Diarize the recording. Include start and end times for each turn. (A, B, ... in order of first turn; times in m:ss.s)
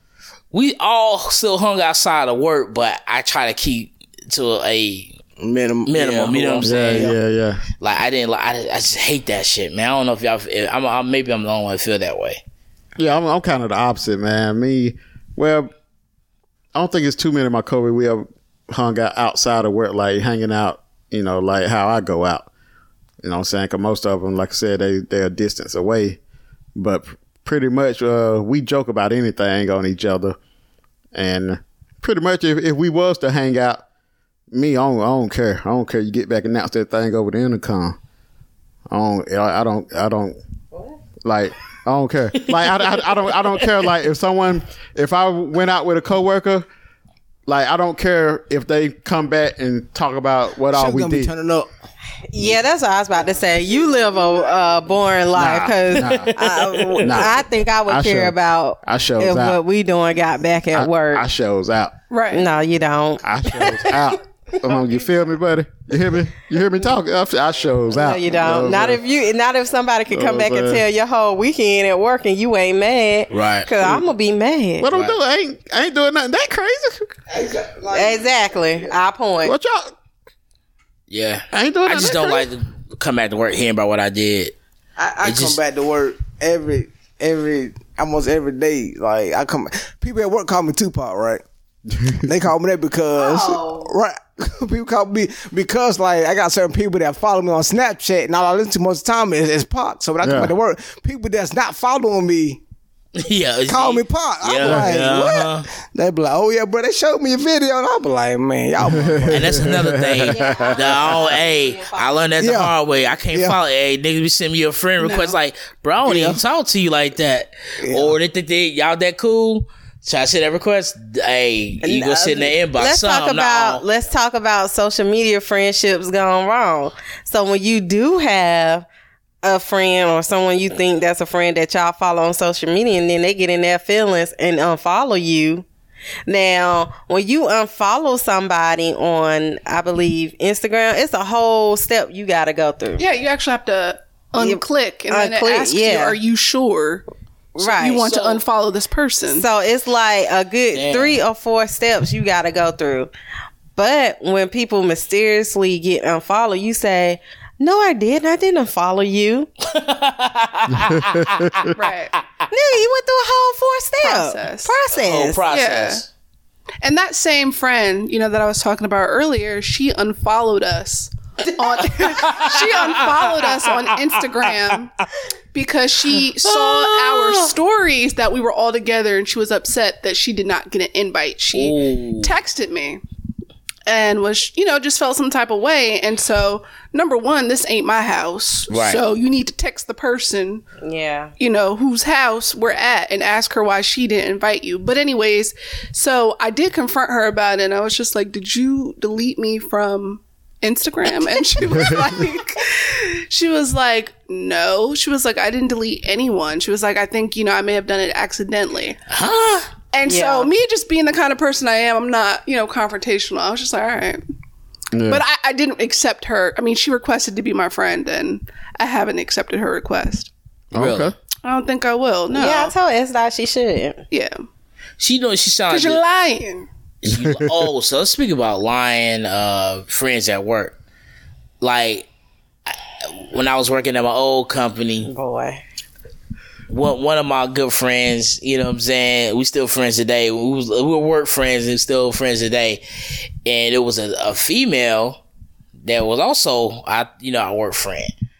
0:00.5-0:05.2 A
0:05.4-0:07.2 B
0:05.8-0:07.1 A
0:06.6-0:07.6 C
0:07.8-0:12.4 A
0:13.0-0:15.7 C
0:16.7-0:22.5 C
0:23.2-0:26.2 C
0:26.7-0:30.4 C
0:31.1-0:33.8 C
0:34.5-0:38.0 C
0:38.9-0:40.4 C
0:41.2-0:46.7 C
0:42.5-0:43.9 A
0:47.4-0:51.3 C
0:50.7-0:51.7 B
0:52.3-1:01.3 D
0:55.3-0:56.3 C
0:56.0-0:57.2 A
0:57.0-0:59.6 C
1:00.7-1:01.9 C
1:02.1-1:02.4 E
1:02.3-1:04.2 D
1:03.2-1:09.0 C
1:07.9-1:14.9 D
1:10.1-1:10.8 C
1:13.3-1:13.7 A
1:14.8-1:17.1 C
1:14.9-1:15.2 A
1:17.3-1:18.9 B
1:17.9-1:19.5 D
1:19.4-1:19.9 C
1:21.1-1:24.6 A
1:21.5-1:22.5 C
1:25.0-1:31.4 B
1:25.2-1:25.6 A
1:31.9-1:32.2 C
1:32.2-1:42.6 B
1:33.2-1:33.9 D
1:40.2-1:40.5 C
1:43.2-1:45.7 A
1:43.7-1:49.8 B
1:44.6-1:44.9 C
1:48.8-1:50.4 C
1:49.3-2:03.8 A
1:50.2-1:52.1 D
1:52.4-1:52.8 B
1:53.3-1:53.6 B
1:55.0-1:55.4 E
1:56.0-1:56.4 B
1:57.8-1:58.1 B
2:01.8-2:08.8 D
2:09.4-2:15.6 D
2:16.3-2:23.0 D
2:23.0-2:27.0 E
2:24.4-2:26.2 D
2:27.6-2:28.2 D
2:27.6-2:29.4 E
2:29.3-2:33.1 D
2:30.7-2:31.2 A
2:33.8-2:39.5 D
2:39.7-2:41.7 A
2:40.7-2:41.5 C
2:41.7-2:42.1 E
2:42.5-2:45.4 D
2:44.0-2:44.7 E
2:44.9-2:46.1 A
2:45.5-2:46.0 E
2:46.8-2:54.9 E
2:52.2-2:54.1 A
2:55.5-3:03.0 E
2:56.4-2:57.5 A
3:01.5-3:02.4 A
3:03.9-3:10.6 E
3:08.7-3:09.0 A
3:10.8-3:11.3 D
3:11.4-3:29.0 E
3:29.1-3:29.7 A
3:29.9-3:34.2 E
3:30.0-3:30.5 D
3:34.9-3:35.2 C
3:35.1-3:40.3 E
3:40.7-3:41.1 C
3:40.8-3:41.1 A
3:41.4-3:42.7 E
3:42.3-3:44.0 D
3:44.1-3:44.4 E
3:45.0-3:46.0 A
3:45.7-3:46.7 E
3:47.0-3:50.7 A
3:47.1-3:47.6 C
3:51.6-3:52.1 A
3:52.7-3:55.1 A
3:55.0-3:55.6 D
3:56.7-4:02.8 A
4:03.4-4:05.2 A
4:05.8-4:08.1 A